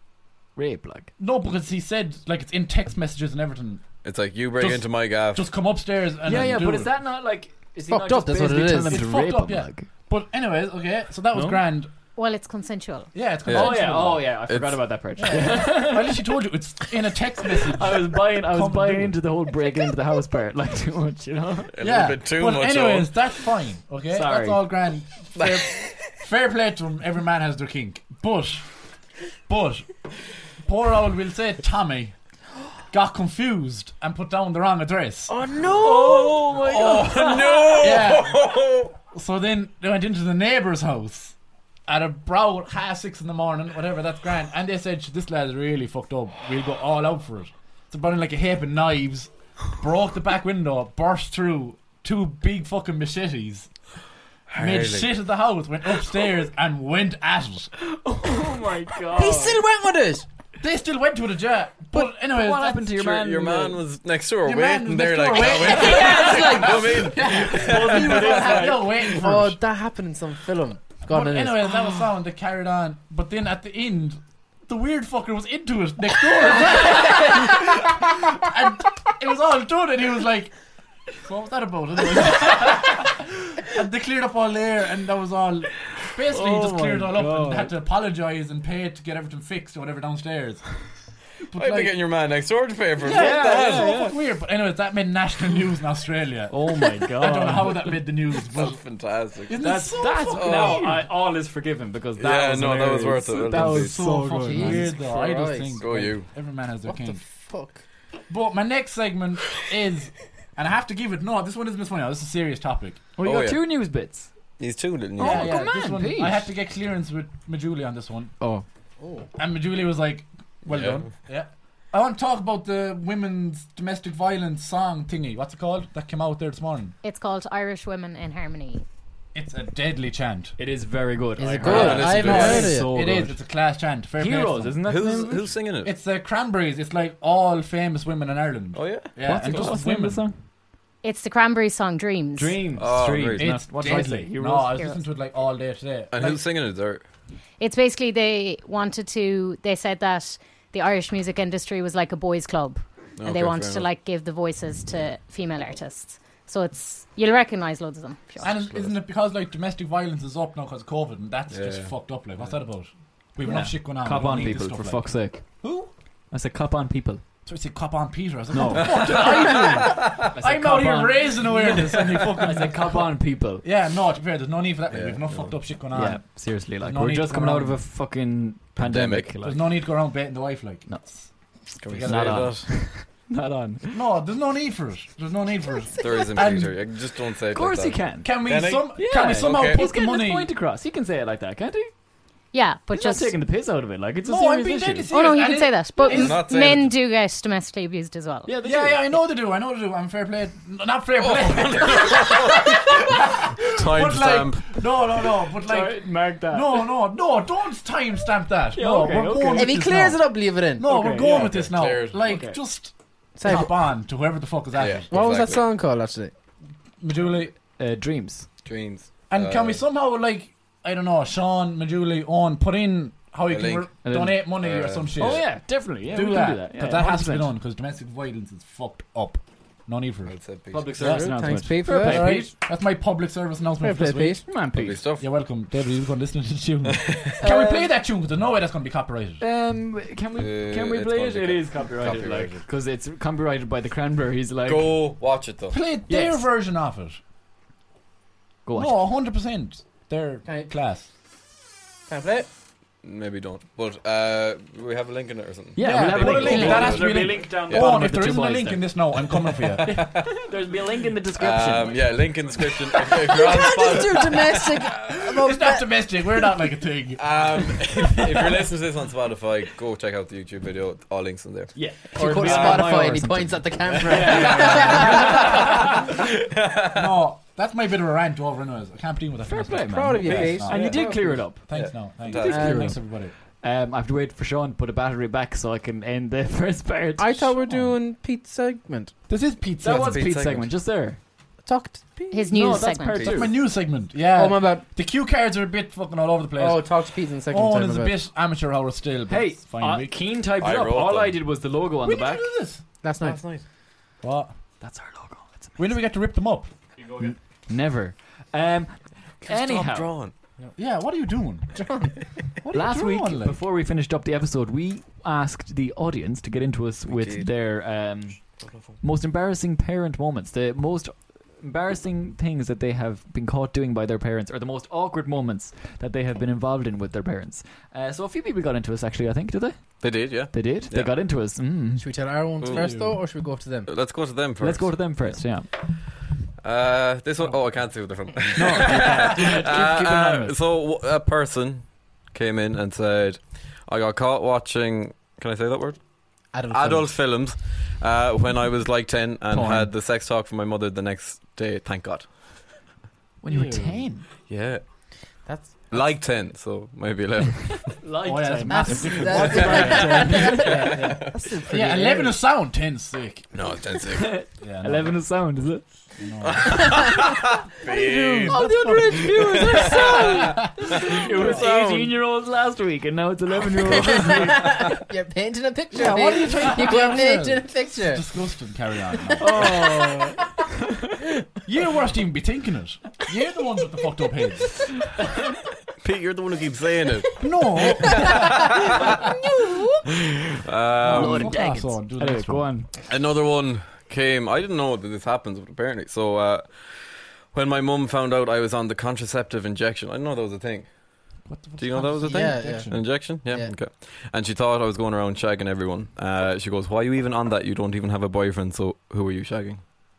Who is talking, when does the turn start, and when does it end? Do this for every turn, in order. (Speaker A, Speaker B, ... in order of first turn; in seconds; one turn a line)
Speaker A: 0.6-1.1
Speaker B: 1.2-3.8
Speaker C: 4.0-5.5
Speaker B: 4.6-6.9
Speaker A: 6.3-9.9
Speaker D: 7.9-9.1
Speaker B: 8.9-11.9
Speaker A: 11.3-11.6
Speaker E: 12.1-13.1
Speaker B: 13.1-14.3
Speaker C: 13.5-13.8
Speaker A: 13.5-16.3
Speaker C: 14.5-14.8
Speaker B: 15.2-19.2
Speaker A: 17.7-21.7
Speaker C: 21.7-23.4
Speaker B: 21.8-28.7
Speaker A: 24.1-24.6
Speaker C: 25.4-26.1
Speaker B: 29.5-29.9
Speaker B: 30.6-32.1
Speaker B: 32.9-35.3
Speaker D: 35.3-37.0
Speaker C: 35.6-38.9
Speaker A: 35.8-37.8
Speaker B: 37.8-38.5
Speaker B: 39.1-41.4
Speaker B: 41.9-53.7
Speaker C: 54.5-55.1
Speaker B: 54.6-57.7
Speaker A: 57.8-59.6
Speaker D: 59.1-60.3
Speaker B: 60.6-62.9
Speaker A: 61.9-63.8
Speaker C: 63.0-68.8
Speaker B: 64.5-69.6
Speaker A: 66.0-66.5
Speaker D: 66.2-66.7
Speaker A: 67.3-68.9
Speaker D: 69.2-71.8
Speaker B: 71.1-80.5
Speaker B: 81.2-90.8
Speaker A: 86.3-87.7
Speaker B: 91.5-91.9
Speaker C: 91.5-94.0
Speaker B: 93.0-96.6
Speaker A: 93.1-94.2
Speaker A: 96.5-98.0
Speaker B: 97.2-98.8
Speaker C: 98.4-100.9
Speaker B: 99.5-101.0
Speaker A: 99.6-104.9
Speaker C: 102.2-104.0
Speaker B: 103.5-107.2
Speaker D: 104.4-105.8
Speaker C: 105.8-106.3
Speaker D: 106.9-107.8
Speaker B: 108.3-113.0
Speaker A: 113.2-114.3
Speaker C: 113.2-113.6
Speaker C: 114.6-115.5
Speaker A: 115.2-116.5
Speaker B: 115.2-118.3
Speaker D: 118.4-119.3
Speaker B: 119.4-127.0
Speaker C: 120.7-121.1
Speaker E: 127.0-128.8
Speaker B: 129.3-130.6
Speaker A: 130.6-133.4
Speaker D: 131.4-132.9
Speaker C: 131.6-132.8
Speaker B: 131.6-134.8
Speaker A: 134.2-135.4
Speaker C: 134.8-135.9
Speaker B: 135.8-140.2
Speaker C: 138.7-139.7
Speaker A: 139.2-140.4
Speaker E: 141.0-142.6
Speaker A: 142.4-145.0
Speaker C: 142.8-143.6
Speaker B: 143.4-146.4
Speaker C: 146.1-147.0
Speaker E: 147.6-158.6
Speaker C: 153.2-153.9
Speaker B: 158.4-165.9
Speaker C: 158.5-158.9
Speaker C: 161.5-161.9
Speaker A: 163.4-165.7
Speaker A: 166.3-167.2
Speaker B: 167.5-173.1
Speaker A: 168.5-173.6
Speaker C: 168.9-169.5
Speaker B: 173.6-176.2
Speaker C: 174.9-175.6
Speaker A: 175.9-179.7
Speaker B: 176.8-177.8
Speaker C: 178.8-179.3
Speaker B: 179.4-181.3
Speaker C: 181.8-182.7
Speaker B: 181.9-182.6
Speaker A: 182.0-184.0
Speaker B: 183.9-186.8
Speaker C: 186.0-189.8
Speaker A: 187.5-188.4
Speaker B: 188.2-190.5
Speaker A: 189.0-191.9
Speaker E: 192.5-193.4
Speaker A: 192.9-195.1
Speaker B: 194.2-196.4
Speaker E: 195.1-198.5
Speaker C: 196.1-196.9
Speaker A: 198.5-199.1
Speaker B: 198.6-215.1
Speaker C: 201.2-204.8
Speaker A: 205.6-206.9
Speaker A: 208.7-209.8
Speaker D: 209.5-210.8
Speaker A: 210.8-211.6
Speaker C: 211.3-212.3
Speaker A: 212.2-212.6
Speaker D: 213.4-213.7
Speaker C: 214.8-215.6
Speaker D: 215.1-216.3
Speaker B: 217.0-217.6
Speaker A: 217.8-218.5
Speaker C: 218.6-219.8
Speaker B: 219.3-225.5
Speaker C: 223.5-223.9
Speaker A: 224.0-224.4
Speaker C: 224.6-225.4
Speaker A: 225.2-227.5
Speaker B: 226.1-230.4
Speaker C: 230.3-230.9
Speaker A: 230.7-232.5
Speaker B: 231.0-231.3
Speaker D: 231.0-232.4
Speaker B: 231.8-234.4
Speaker D: 233.8-234.4
Speaker A: 234.4-235.0
Speaker C: 234.7-235.3
Speaker B: 235.2-239.4
Speaker C: 236.9-237.4
Speaker A: 237.4-237.9
Speaker A: 239.4-245.0
Speaker C: 240.4-242.6
Speaker C: 244.7-245.8
Speaker B: 245.7-247.2
Speaker A: 246.1-246.5
Speaker A: 248.6-249.0
Speaker B: 248.8-251.1
Speaker D: 250.4-250.7
Speaker D: 252.1-252.5
Speaker C: 253.0-257.9
Speaker A: 255.8-259.0
Speaker B: 255.8-260.1
Speaker E: 256.5-256.9
Speaker C: 259.3-260.3
Speaker A: 260.1-262.1
Speaker C: 261.4-264.7
Speaker D: 263.3-266.7
Speaker B: 264.6-268.6
Speaker C: 267.2-271.7
Speaker A: 271.8-276.0
Speaker D: 272.1-275.8
Speaker C: 272.4-272.9
Speaker C: 273.9-277.1
Speaker B: 276.9-283.3
Speaker A: 279.4-281.9
Speaker D: 279.9-281.4
Speaker C: 280.3-280.9
Speaker C: 281.7-282.9
Speaker D: 282.4-283.0
Speaker A: 282.6-287.6
Speaker D: 287.2-289.1
Speaker B: 289.3-290.2
Speaker A: 289.8-291.2
Speaker C: 289.9-290.7
Speaker D: 291.6-292.6
Speaker E: 292.3-293.4
Speaker A: 292.5-293.6
Speaker B: 293.2-300.1
Speaker D: 294.3-294.9
Speaker D: 296.6-298.1
Speaker A: 299.3-302.5
Speaker C: 300.6-301.4
Speaker B: 302.0-303.4
Speaker D: 303.0-303.6
Speaker B: 304.2-304.6
Speaker A: 304.8-305.8
Speaker B: 305.8-307.3
Speaker A: 307.2-310.1
Speaker C: 309.4-310.3
Speaker B: 310.8-311.9
Speaker D: 311.7-312.2
Speaker B: 312.6-313.6
Speaker A: 312.7-318.4
Speaker C: 317.1-317.5
Speaker A: 319.0-332.1
Speaker C: 330.0-331.1
Speaker D: 332.0-333.9
Speaker C: 332.6-332.9
Speaker B: 332.7-333.2
Speaker C: 333.9-335.4
Speaker A: 334.6-335.7
Speaker C: 336.6-346.1
Speaker A: 338.6-340.6
Speaker D: 346.5-347.1
Speaker C: 346.7-352.3
Speaker A: 349.5-349.9
Speaker A: 353.4-354.3
Speaker B: 353.5-354.1
Speaker C: 354.5-354.8
Speaker D: 355.5-356.0
Speaker C: 355.9-358.0
Speaker A: 357.9-360.9
Speaker B: 358.2-363.5
Speaker D: 358.6-362.4
Speaker C: 359.3-361.2
Speaker C: 363.5-364.4
Speaker A: 364.1-365.9
Speaker B: 364.6-365.2
Speaker B: 366.2-366.8
Speaker C: 366.4-368.6
Speaker D: 366.6-370.6
Speaker B: 368.5-371.5
Speaker C: 369.2-372.1
Speaker A: 370.8-374.9
Speaker D: 373.9-378.2
Speaker B: 375.9-379.9
Speaker D: 379.3-380.4
Speaker A: 379.4-381.2
Speaker B: 381.6-384.8
Speaker C: 386.0-389.2
Speaker B: 387.4-389.1
Speaker D: 389.2-390.0
Speaker C: 390.4-391.5
Speaker B: 391.0-392.7
Speaker A: 391.1-392.9
Speaker C: 393.1-409.8
Speaker B: 401.5-403.0
Speaker D: 402.2-403.7